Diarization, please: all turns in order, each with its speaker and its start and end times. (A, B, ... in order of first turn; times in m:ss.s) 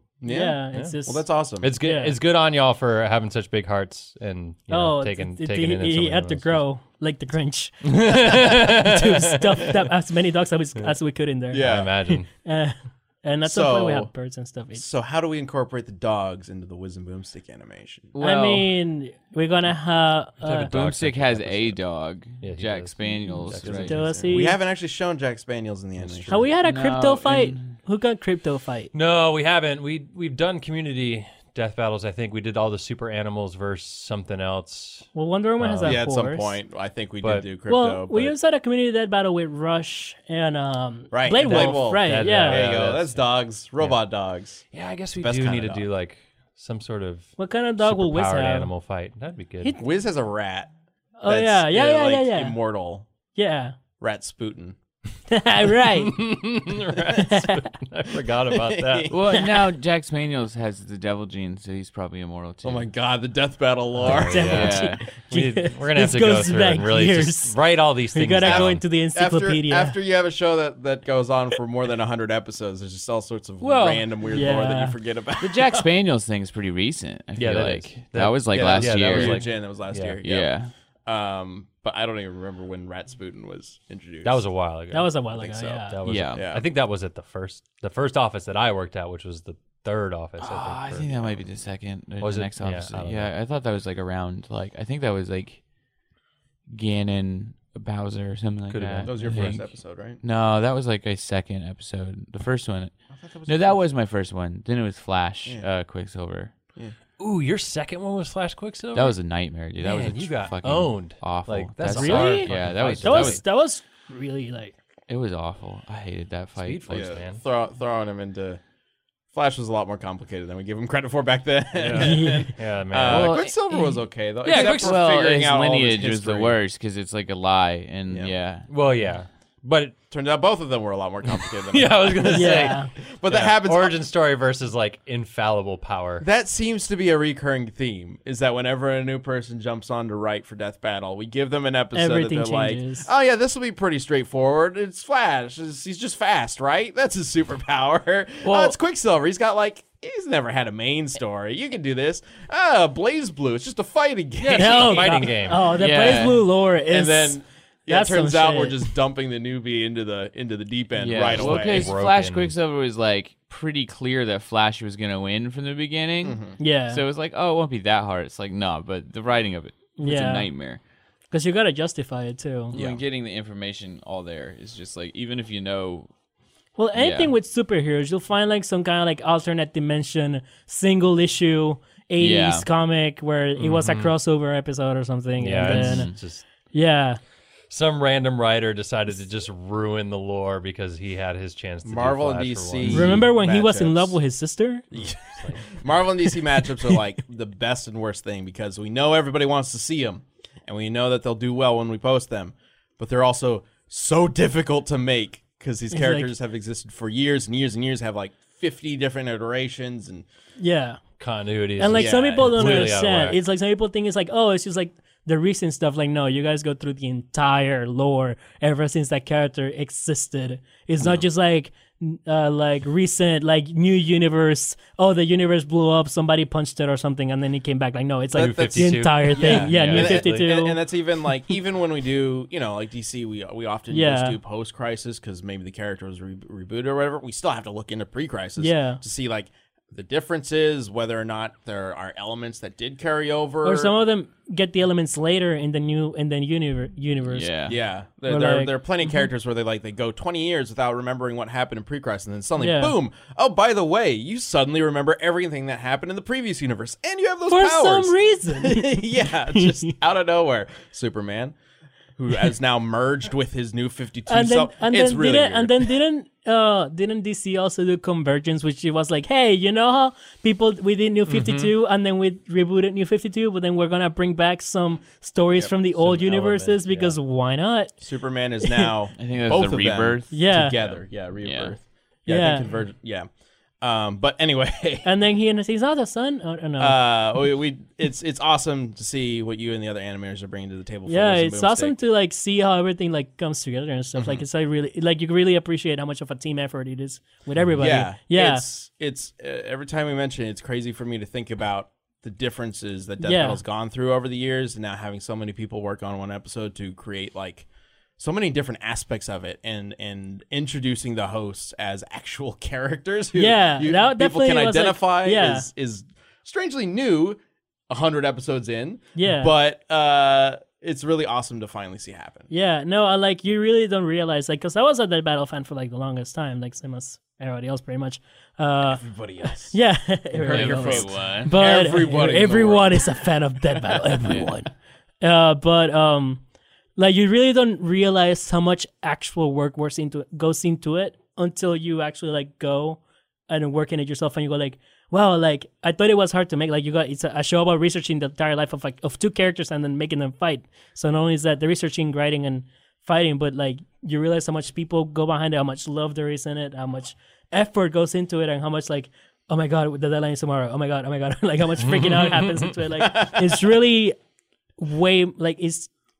0:00.2-0:01.7 A
0:00.2-0:01.2 B
0:01.6-0:06.6 C
0:01.8-0:02.2 B
0:04.7-0:14.8 B
0:07.8-0:09.8 C
0:11.5-0:12.0 A
0:11.6-0:12.3 C
0:13.4-0:14.1 A
0:14.7-0:18.1 A
0:18.1-0:18.7 D
0:18.2-0:20.7 B
0:20.4-0:21.8 C
0:20.7-0:24.3 D
0:22.4-0:24.2 C
0:23.6-0:26.4 A
0:23.9-0:24.6 B
0:26.0-0:26.4 C
0:26.3-0:28.9 B
0:26.6-0:27.7 D
0:28.9-0:35.1 C
0:35.1-0:36.6 B
0:35.6-0:36.0 C
0:35.8-0:38.3 A
0:37.2-0:37.5 C
0:37.7-0:42.7 B
0:41.1-0:44.6 A
0:41.4-0:43.2 C
0:44.7-0:49.7 C
0:45.2-0:45.8 A
0:47.4-0:48.7 B
0:49.8-0:50.7 A
0:51.2-0:52.6 B
0:51.2-0:53.1 A
0:53.3-0:53.7 B
0:54.0-0:54.8 A
0:55.3-0:56.3 B
0:56.0-0:59.1 C
0:57.2-0:57.6 B
0:58.5-0:59.4 A
0:59.1-1:02.9 D
1:02.6-1:04.8 A
1:04.0-1:08.8 C
1:04.1-1:10.0 B
1:04.4-1:05.0 D
1:08.4-1:15.8 A
1:13.6-1:14.0 C
1:14.3-1:15.0 B
1:15.4-1:19.6 D
1:17.4-1:20.2 C
1:18.5-1:20.5 A
1:20.2-1:20.7 D
1:21.0-1:24.4 A
1:24.2-1:25.1 C
1:24.9-1:26.0 B
1:25.3-1:26.6 A
1:25.9-1:31.4 C
1:26.0-1:26.4 D
1:30.4-1:35.6 D
1:32.2-1:33.3 C
1:36.7-1:42.9 D
1:38.7-1:39.6 C
1:39.0-1:40.2 A
1:43.2-1:43.7 A
1:43.4-1:46.5 D
1:47.2-1:49.2 C
1:48.9-1:53.4 D
1:49.8-1:53.4 C
1:51.8-1:54.7 B
1:55.1-1:57.1 D
1:56.6-1:57.4 C
1:56.9-1:58.6 A
1:59.3-2:06.6 A
2:01.7-2:03.4 C
2:01.9-2:02.5 B
2:03.0-2:08.7 D
2:04.4-2:05.0 C
2:08.1-2:08.3 A
2:08.7-2:10.0 C
2:10.1-2:14.0 A
2:11.2-2:16.2 C
2:12.3-2:12.9 B
2:16.2-2:35.5 A
2:21.9-2:23.1 B
2:28.4-2:28.8 D
2:34.4-2:35.8 C
2:34.5-2:38.9 B
2:35.8-2:36.4 D
2:36.0-2:36.3 A
2:36.9-2:41.9 A
2:41.0-2:50.8 D
2:41.3-2:42.5 C
2:46.2-2:46.6 A
2:46.6-2:47.0 B
2:50.0-2:50.5 B
2:51.3-2:52.8 B
2:52.7-2:53.0 A
2:52.7-2:56.1 D
2:56.8-3:06.1 B
2:56.9-2:57.3 D
3:02.2-3:02.6 D
3:03.6-3:04.1 C
3:05.4-3:06.4 C
3:05.6-3:06.1 D
3:06.7-3:07.2 B
3:07.7-3:13.3 C
3:11.8-3:14.2 A
3:12.8-3:14.8 B
3:14.9-3:15.6 C
3:14.9-3:30.3 A
3:25.9-3:26.3 B
3:30.6-3:31.0 B
3:31.2-3:33.4 C
3:31.8-3:50.8 B
3:31.9-3:32.9 A
3:48.3-3:50.5 C
3:48.4-4:03.9 A
3:53.9-3:54.4 B
3:58.6-3:59.0 B
4:03.6-4:07.7 B
4:07.3-4:07.8 D
4:07.7-4:21.6 A
4:08.3-4:09.2 B
4:12.6-4:12.9 B
4:17.5-4:19.9 B
4:22.2-4:25.9 A
4:24.3-4:38.0 B
4:31.2-4:31.7 C
4:35.9-4:37.2 C
4:38.0-4:43.3 A
4:38.6-4:38.9 B
4:39.2-4:41.7 D
4:40.3-4:40.8 B
4:42.3-4:42.7 B
4:43.8-4:45.1 A
4:45.0-4:47.0 B
4:46.8-4:52.0 A
4:51.1-4:58.6 B
4:54.2-4:54.4 A
4:57.8-5:07.7 A
5:03.2-5:03.6 B
5:08.2-5:22.5 A
5:13.3-5:15.7 B
5:19.2-5:19.5 B
5:22.5-5:34.7 B
5:28.9-5:29.8 A
5:30.4-5:33.2 A
5:30.4-5:31.5 D
5:35.2-5:36.4 B
5:37.0-6:04.2 B
6:01.8-6:02.7 C
6:02.9-6:03.7 A
6:04.8-6:05.9 B